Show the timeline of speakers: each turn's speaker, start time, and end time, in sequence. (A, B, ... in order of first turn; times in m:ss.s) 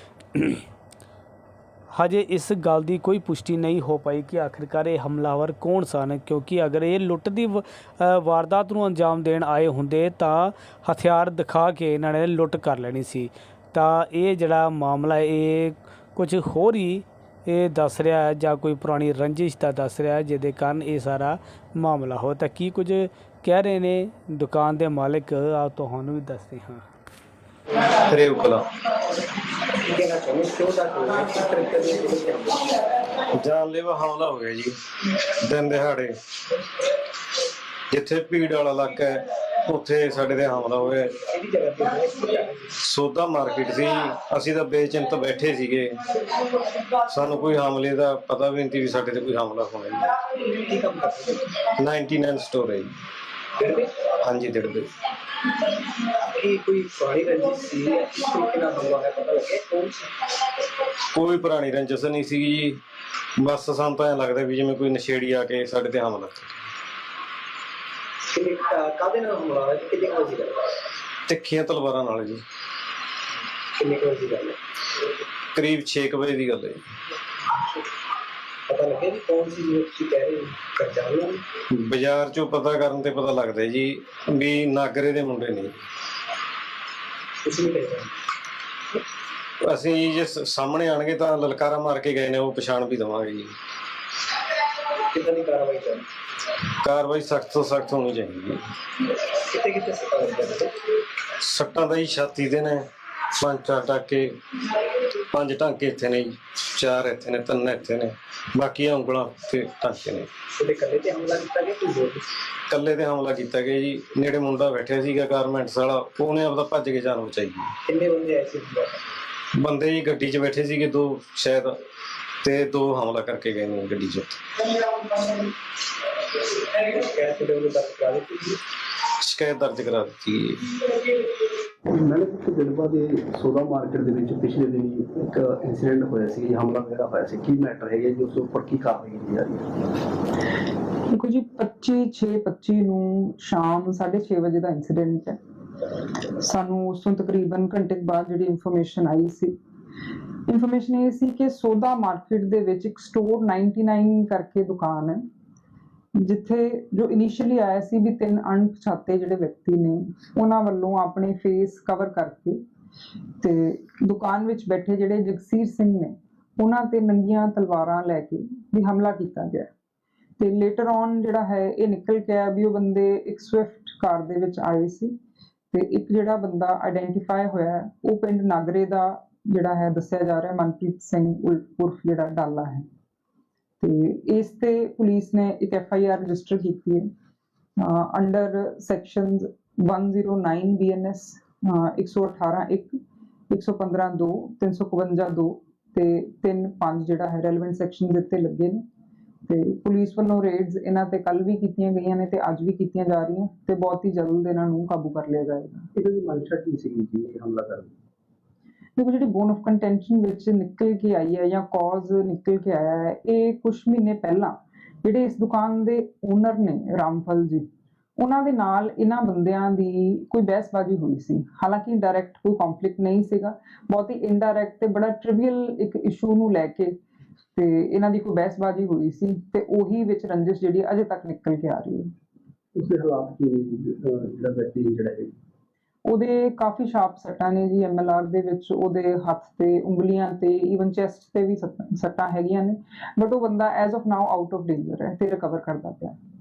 0:00.3-0:00.6 A
0:01.9-0:26.8 A
0:28.0-0:28.6 B
0:29.8-0:32.8 C
0:33.3-0:34.7 B
0:35.4-0:36.1 B
0:37.9-0:41.1 B
0:41.2-0:42.7 C
0:42.8-0:46.0 B
0:47.0-0:50.1 B
0:50.3-0:51.6 C
0:51.8-0:52.9 B
0:53.6-0:54.0 C
0:54.2-0:54.9 B
0:56.1-1:00.1 C
1:01.1-1:02.8 B
1:03.4-1:06.6 B
1:08.3-1:10.7 C
1:11.3-1:12.4 B
1:13.8-1:14.6 C
1:15.5-1:16.8 B
1:18.7-1:21.4 C
1:21.7-1:25.8 B
1:27.4-1:28.1 C
1:29.6-1:33.5 B
1:35.1-1:36.0 C
1:36.8-1:38.6 B
1:39.4-1:40.8 C
1:41.4-1:42.8 B
1:43.4-1:44.3 B
1:45.3-1:50.3 B
1:50.6-1:52.2 C
1:52.7-1:57.7 B
1:57.8-1:59.1 C
1:59.6-2:01.7 B
2:02.4-2:04.4 B
2:06.7-2:08.6 C
2:09.2-2:10.7 B
2:11.9-2:19.6 D
2:21.1-2:25.4 E
2:26.4-2:29.5 E
2:30.5-2:35.2 E
2:36.2-2:42.6 E
2:43.4-2:49.7 E
2:50.4-2:55.1 E
2:55.7-3:02.8 E
3:03.8-3:07.0 E
3:07.8-3:12.9 E
3:13.5-3:18.8 E
3:19.5-3:25.9 E
3:25.9-3:27.9 D
3:29.0-3:37.6 E
3:38.2-3:47.0 E
3:47.6-3:52.1 E
3:52.7-3:55.3 D
3:56.0-4:06.1 E